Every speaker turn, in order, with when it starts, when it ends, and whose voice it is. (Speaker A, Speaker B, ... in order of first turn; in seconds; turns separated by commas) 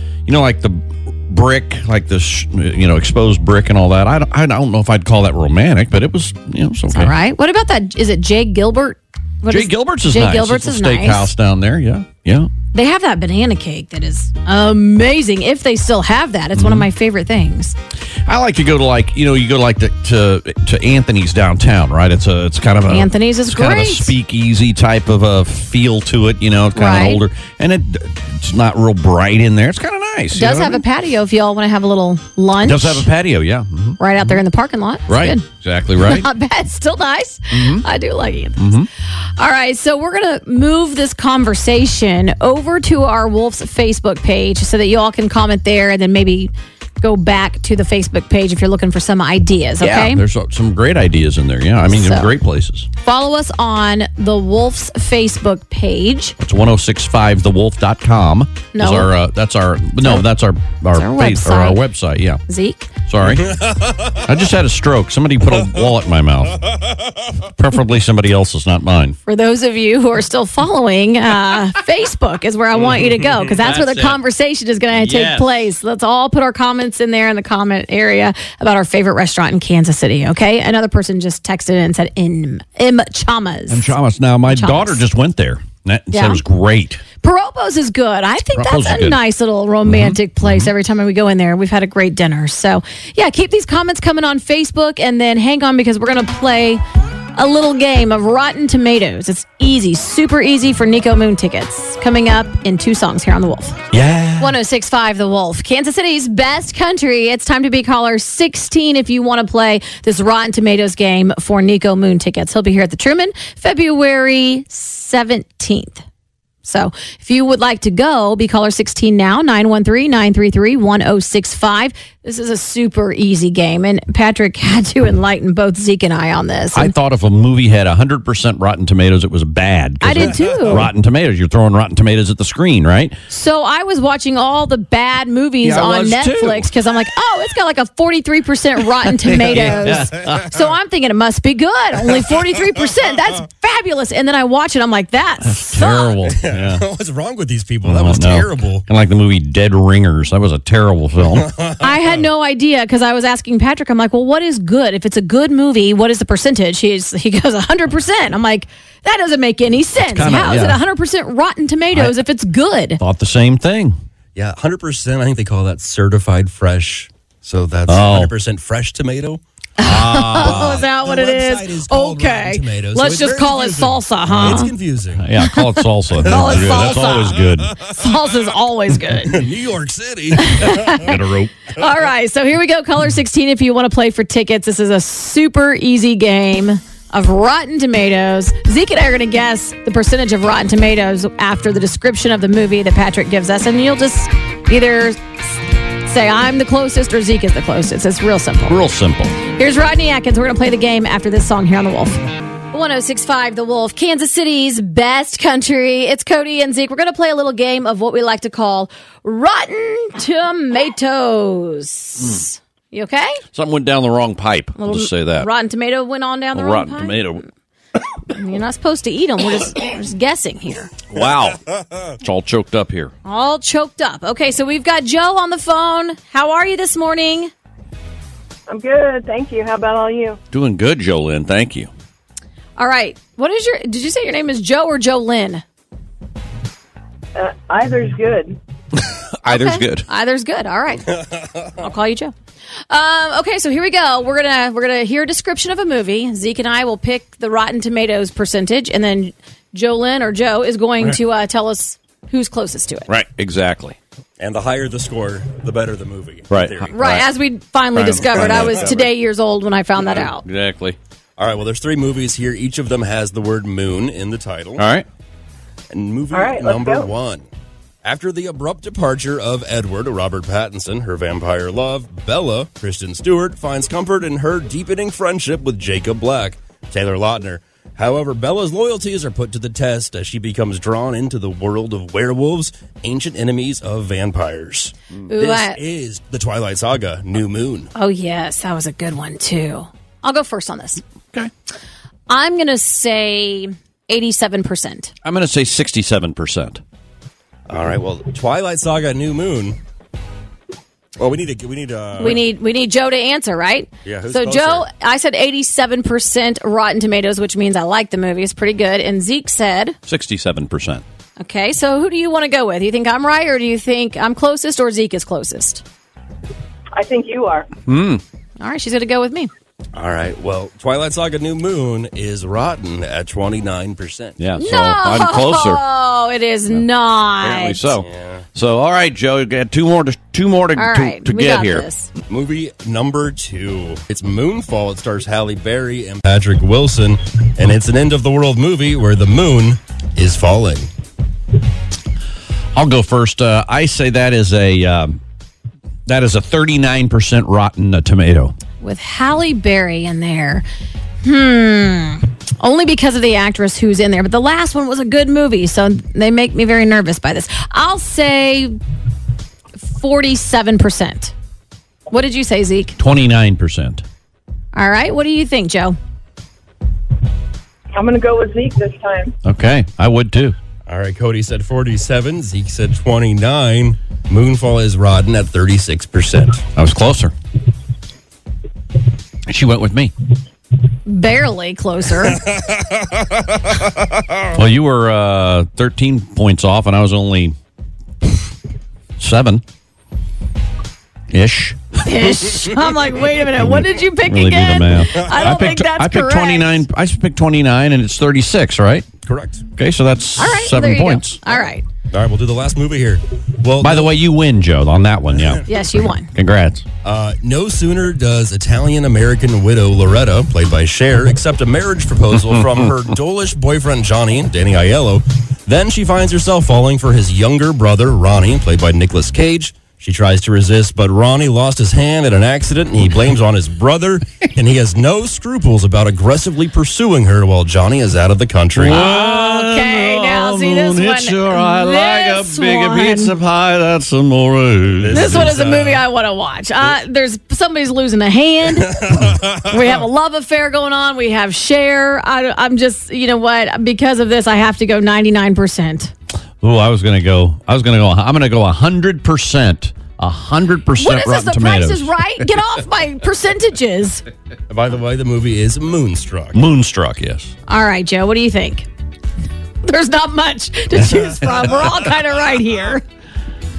Speaker A: 0.2-7.1, Speaker B: 6.9-11.3, Speaker A: 9.5-12.5, Speaker B: 12.7-17.8, Speaker A: 16.5-16.9, Speaker A: 18.2-30.8, Speaker B: 22.9-24.1, Speaker B: 26.7-27.2, Speaker B: 30.3-33.1, Speaker A: 32.6-34.4, Speaker B: 34.0-35.4, Speaker A: 35.1-36.3, Speaker B: 36.0-38.7, Speaker A: 37.5-37.8, Speaker A: 38.6-38.9, Speaker B: 39.4-50.2, Speaker A: 49.8-52.9, Speaker B: 51.9-52.3, Speaker B: 53.0-56.4, Speaker A: 56.4-62.4, Speaker B: 58.7-59.1, Speaker B: 60.9-61.8, Speaker B: 62.5-62.9, Speaker A: 63.1-63.5, Speaker C: 63.2-64.2, Speaker A: 64.2-66.6, Speaker A: 67.4-69.2, Speaker B: 69.2-83.9, Speaker A: 73.5-74.2, Speaker A: 74.9-75.7, Speaker A: 83.7-87.0, Speaker B: 84.5-85.0, Speaker B: 86.1-86.4, Speaker B: 87.2-96.8, Speaker A: 88.5-89.2, Speaker A: 89.8-90.7, Speaker B: 97.3-103.8, Speaker A: 103.9-104.5, Speaker B: 104.4-116.0, Speaker B: 116.6-126.9, Speaker A: 126.7-133.2, Speaker B: 130.0-130.9, Speaker B: 133.3-146.2, Speaker A: 135.6-136.7, Speaker A: 139.2-140.6, Speaker A: 145.4-146.8, Speaker C: 146.4-148.8, Speaker A: 147.8-151.5, Speaker C: 151.4-151.9, Speaker B: 151.8-163.0, Speaker A: 160.0-160.8, Speaker A: 163.0-164.0, Speaker C: 164.3-169.4, Speaker A: 167.9-168.3, Speaker B: 169.8-174.7, Speaker A: 169.8-170.8, Speaker C: 170.3-175.3, Speaker A: 174.3-177.8, Speaker B: 175.4-179.4, Speaker C: 176.2-177.7, Speaker C: 179.3-181.0, Speaker B: 180.4-181.2, Speaker A: 181.0-181.5, Speaker B: 181.7-195.2, Speaker B: 196.0-198.8, Speaker A: 198.7-199.4, Speaker B: 199.5-213.4, Speaker A: 213.5-215.5, Speaker B: 214.8-217.4, Speaker A: 216.5-217.4, Speaker B: 218.3-220.9, Speaker A: 221.1-221.6, Speaker A: 222.2-223.1, Speaker B: 223.2-227.5, Speaker D: 228.7-230.4, Speaker A: 230.5-231.9, Speaker B: 232.8-235.6, Speaker D: 237.3-238.6, Speaker A: 238.9-240.1, Speaker B: 239.4-241.1, Speaker B: 241.8-242.3, Speaker B: 242.9-253.1, Speaker A: 253.1-254.0, Speaker C: 254.4-256.9, Speaker A: 256.5-257.3, Speaker B: 256.9-260.4, Speaker A: 257.9-259.0, Speaker C: 258.1-259.1, Speaker A: 260.1-261.0, Speaker C: 261.4-264.8, Speaker A: 264.8-265.1, Speaker C: 265.9-267.4, Speaker D: 266.3-267.1, Speaker C: 268.0-287.9, Speaker B: 285.3-285.8, Speaker B: 287.9-291.0, Speaker B: 292.3-295.1, Speaker A: 295.2-296.8, Speaker C: 297.7-299.8, Speaker C: 301.2-302.4, Speaker B: 302.2-310.0, Speaker C: 304.0-304.9, Speaker A: 310.1-311.0, Speaker B: 311.4-315.8, Speaker D: 316.9-317.7, Speaker A: 317.9-318.2, Speaker B: 318.6-319.5, Speaker C: 319.9-324.4, Speaker A: 324.4-325.8, Speaker B: 324.6-327.9, Speaker A: 327.4-331.9, Speaker C: 328.0-328.4, Speaker B: 330.8-332.1, Speaker C: 332.3-340.9, Speaker A: 342.7-345.2, Speaker A: 346.1-348.5, Speaker B: 348.8-350.6, Speaker B: 351.2-358.7, Speaker B: 359.8-361.3, Speaker B: 362.1-362.9, Speaker A: 363.0-364.0, Speaker B: 364.7-366.0, Speaker D: 367.9-369.3, Speaker A: 369.4-370.6, Speaker C: 370.9-376.6, Speaker A: 376.8-377.3, Speaker A: 379.5-380.1, Speaker B: 381.1-382.4, Speaker C: 382.6-382.8, Speaker A: 384.5-387.6, Speaker A: 389.2-389.6, Speaker A: 391.3-391.8, Speaker B: 392.0-396.8, Speaker A: 394.2-399.1, Speaker C: 399.2-399.6, Speaker A: 399.7-401.4, Speaker B: 400.4-401.8, Speaker C: 402.1-404.1, Speaker A: 403.8-406.8, Speaker C: 405.3-405.6, Speaker B: 405.7-406.3, Speaker C: 407.0-429.0, Speaker A: 428.7-435.5, Speaker B: 428.8-433.3, Speaker C: 435.0-436.0, Speaker B: 435.1-446.1, Speaker C: 439.0-439.7, Speaker A: 446.6-452.1, Speaker B: 450.9-454.2, Speaker C: 454.7-456.6, Speaker A: 456.5-457.5, Speaker B: 457.7-458.9, Speaker B: 459.8-463.0